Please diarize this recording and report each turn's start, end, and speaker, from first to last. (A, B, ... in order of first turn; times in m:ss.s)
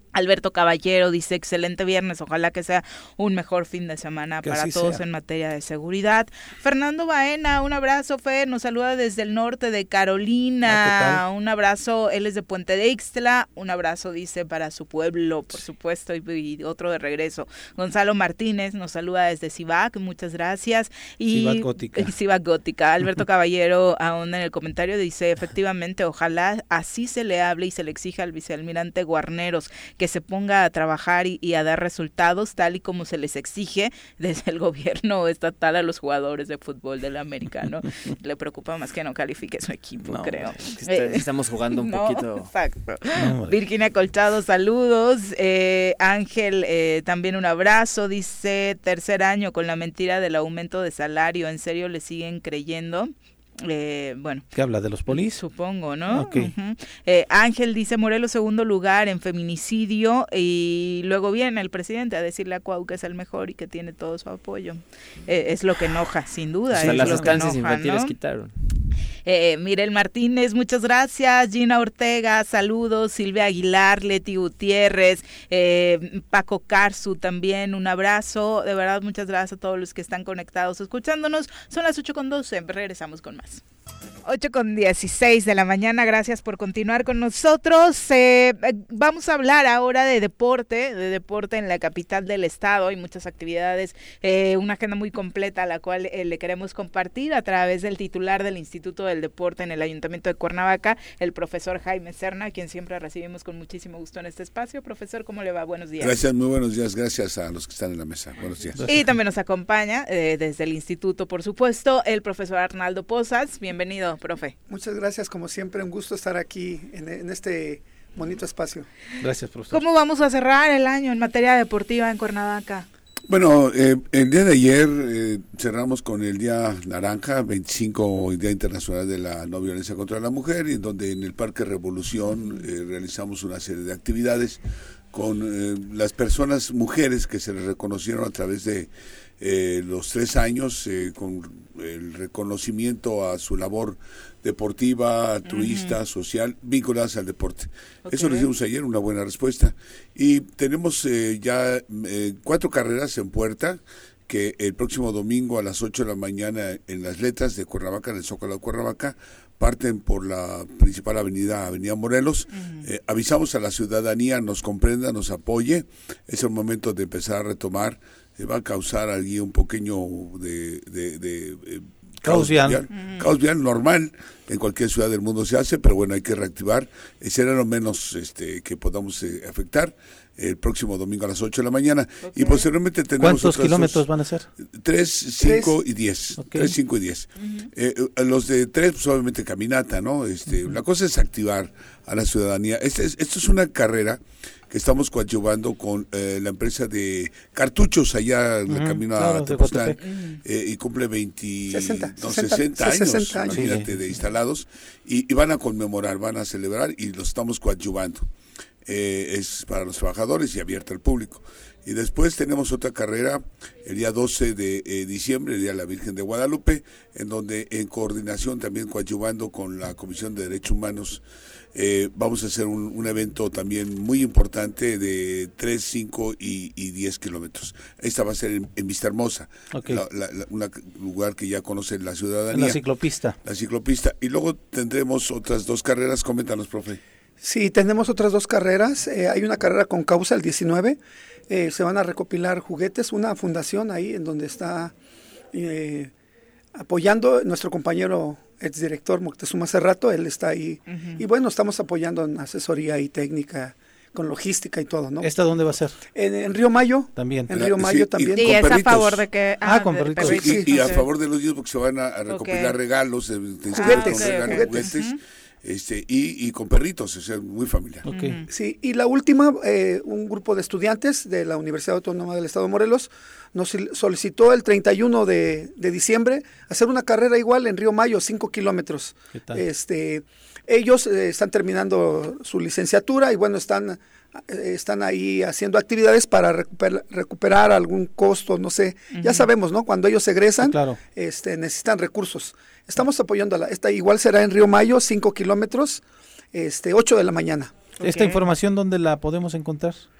0:00.1-0:41.2 A
0:04.4-0:05.0 B
0:10.6-0:11.2 B
0:21.3-0:22.1 B
0:40.0-0:40.6 B
0:40.8-0:42.5 C
0:41.8-0:53.1 A
0:43.2-0:43.5 B
0:53.6-0:54.4 A
0:54.5-0:55.4 B
0:55.1-1:08.1 A
0:56.1-0:56.5 B
1:06.7-1:07.4 B
1:06.8-1:08.5 C
1:09.2-1:23.6 A
1:24.2-1:46.2 A
1:46.0-1:48.8 D
1:48.7-1:49.1 B
1:48.9-1:54.5 A
1:54.7-1:58.9 E
1:59.2-1:59.8 B
1:59.7-2:02.8 A
2:03.3-2:14.6 D
2:15.1-3:04.1 D
2:25.4-2:25.9 A
2:28.0-2:28.5 A
2:42.5-2:42.8 A
2:52.2-2:52.8 B
2:52.9-2:53.2 A
3:02.2-3:02.7 A
3:03.2-3:04.5 B
3:04.6-3:28.3 D
3:05.4-3:05.7 E
3:06.4-3:06.7 B
3:07.4-3:07.7 A
3:18.7-3:20.0 B
3:20.0-3:20.4 A
3:21.7-3:23.8 E
3:23.5-3:23.9 B
3:28.8-3:41.2 D
3:41.7-3:52.8 D
3:49.7-3:50.0 B
3:52.5-3:53.4 B
3:53.4-3:57.0 D
3:57.4-4:04.9 E
4:05.5-4:06.1 E
4:06.7-4:15.3 E
4:10.9-4:11.2 A
4:15.2-4:16.0 B
4:16.1-4:18.9 E
4:17.2-4:17.6 B
4:17.5-4:19.2 D
4:18.4-4:21.0 A
4:19.6-4:20.6 B
4:20.2-4:28.0 D
4:22.3-4:22.8 A
4:23.7-4:25.0 E
4:23.7-4:25.2 A
4:28.0-4:28.4 B
4:28.1-4:28.5 A
4:28.5-4:57.8 E
4:49.1-4:49.4 A
4:50.6-4:51.0 B
4:58.0-5:00.1 B
4:58.0-4:58.4 A